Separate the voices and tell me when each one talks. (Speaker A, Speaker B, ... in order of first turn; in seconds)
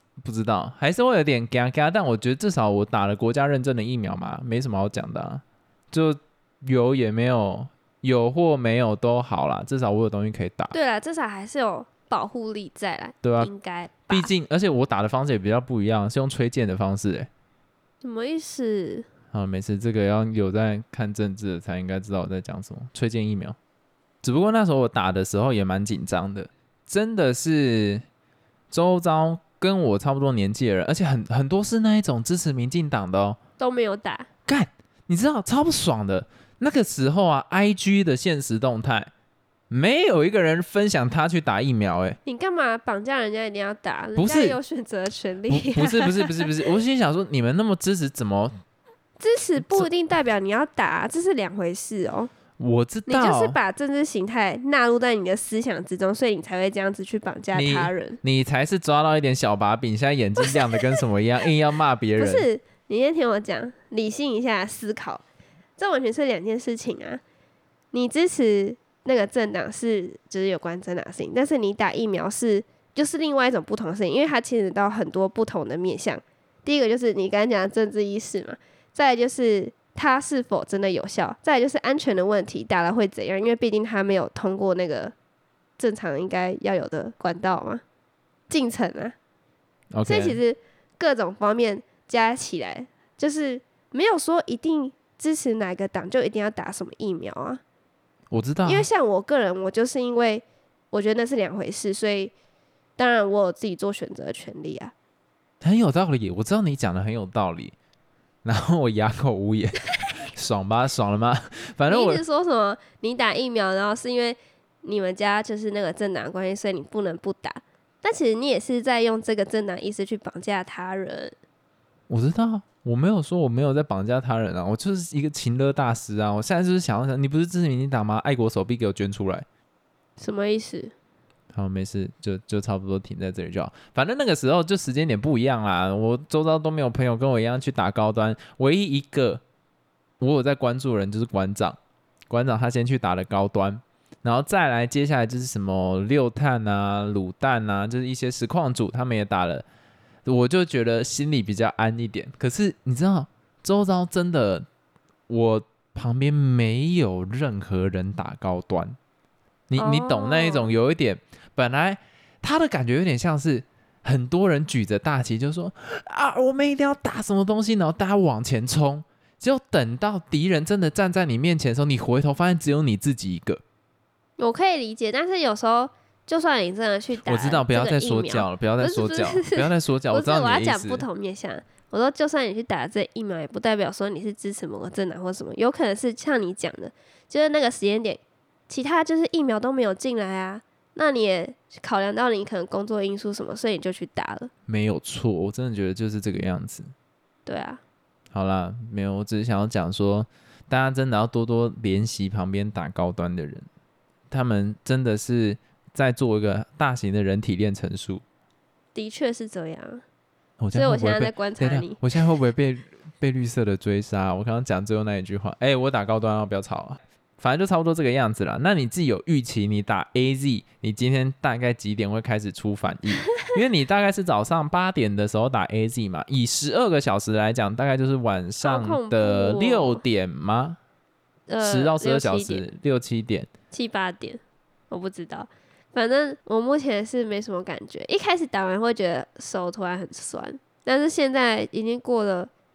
Speaker A: 0.2-10.7, 13.2-13.5, 14.1-17.3, 19.3-23.6, 24.2-28.0, 28.7-33.4, 34.5-39.1, 39.7-42.2, 44.1-44.6, 45.5-48.5, 49.6-49.9, 52.6-53.6, 57.5-62.5, 89.9-90.4, 98.3-98.9, 105.6-107.7, 108.4-112.2, 122.1-129.4, 131.5-139.4, 140.2-141.8, 142.3-149.6, 150.2-154.7, 155.3-159.0, 159.7-173.6, 177.2-181.0, 194.7-196.9, 198.3-203.7, 204.3-208.2, 210.6-230.8, 231.6-233.5
Speaker B: 10.7-14.3, 18.0-19.1, 33.6-34.3, 42.2-46.7, 49.2-52.3, 53.1-58.2, 62.1-65.2, 65.8-67.2, 67.9-85.1, 85.8-87.8, 88.5-89.1, 90.0-97.6, 98.6-102.3, 103.0-104.9, 111.9-121.3, 130.2-130.9, 159.8-160.7, 174.4-194.5, 197.4-197.8, 208.9-210.0, 210.7-212.0, 228.6-230.0, 231.5-232.6, 233.7-234.4, 234.9-242.5